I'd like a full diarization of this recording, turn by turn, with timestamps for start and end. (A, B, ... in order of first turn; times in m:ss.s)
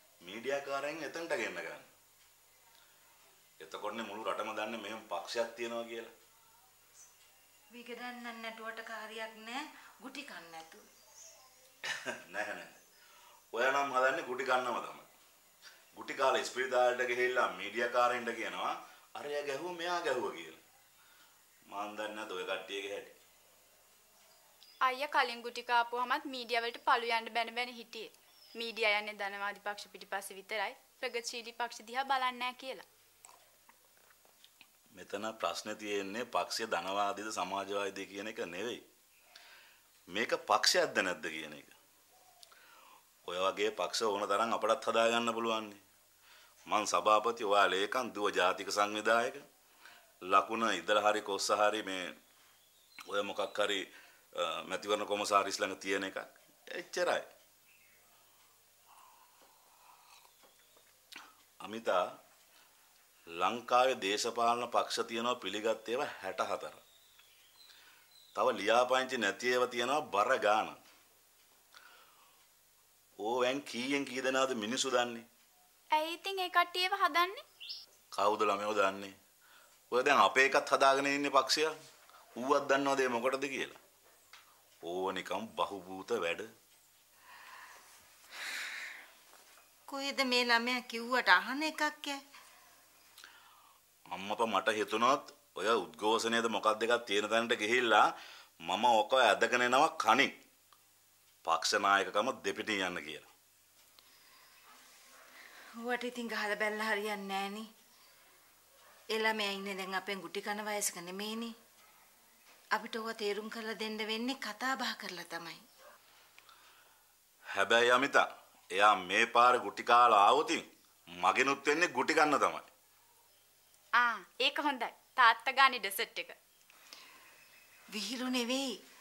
0:00.2-0:01.9 A
0:03.6-0:06.1 A
0:07.7-0:10.8 B
0:12.3-0:12.8 A
0:13.5-0:15.1 A
0:16.0-0:20.6 A
0:21.7-0:23.2 A
0:24.9-0:32.8 C
0:35.0-0:38.8 A
0:40.1-0:41.7 A
0:43.3-0:45.8 A
0:46.7-0:49.4 A
0:50.3-0:52.1 A
0:53.1-0:53.8 A
0:54.4-0:57.2 A
1:01.6-1:02.0 A
1:03.4-1:06.8 A
1:08.4-1:10.8 A
1:13.2-1:15.2 A
1:16.0-1:17.4 C
1:18.2-1:19.1 A
1:19.9-1:21.7 A
1:22.4-1:23.8 A
1:24.9-1:26.5 A
1:29.9-1:32.2 B
1:34.1-1:38.0 A
1:38.7-1:40.3 A
1:41.4-1:43.3 A
1:45.8-1:47.7 B
1:49.1-1:51.5 B
1:52.7-1:55.6 B
1:57.6-1:58.2 A
1:58.8-2:00.7 A
2:01.2-2:02.7 A
2:04.0-2:06.4 C
2:07.9-2:08.7 B